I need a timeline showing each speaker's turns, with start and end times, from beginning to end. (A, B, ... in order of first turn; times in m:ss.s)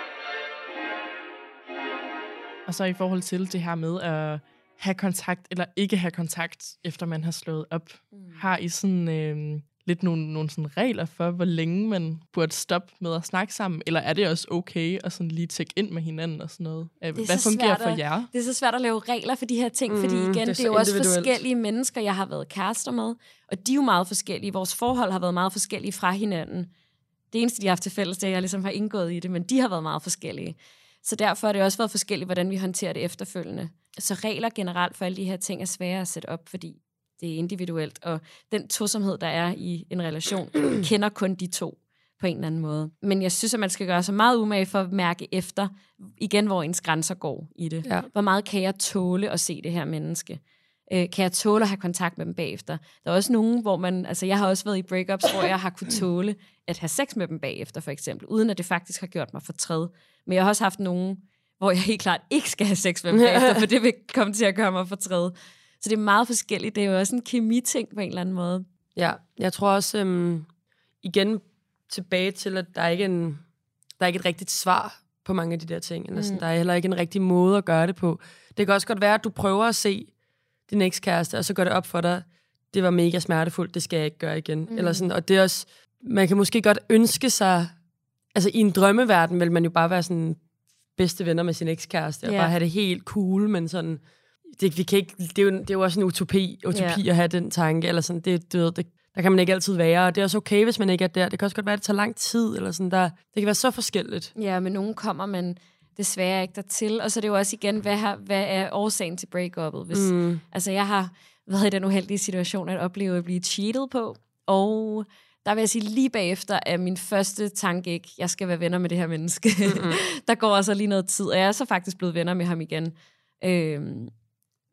0:02.7-0:18.3 A
0:08.1-0:08.4 B
0:17.1-0:26.7 B
0:19.9-0:21.4 C
0:27.3-1:08.6 B
1:03.1-1:03.6 C
1:09.0-1:10.5 C
1:11.0-1:13.4 C
1:14.0-1:20.1 C
1:16.1-1:16.4 B
1:20.7-1:27.7 C
1:24.7-1:25.1 B
1:28.3-1:30.4 C
1:31.0-1:44.3 C
1:32.2-1:32.5 B
1:36.7-1:37.0 B
1:44.3-2:04.1 B
1:49.9-1:50.4 C
1:59.6-2:00.0 C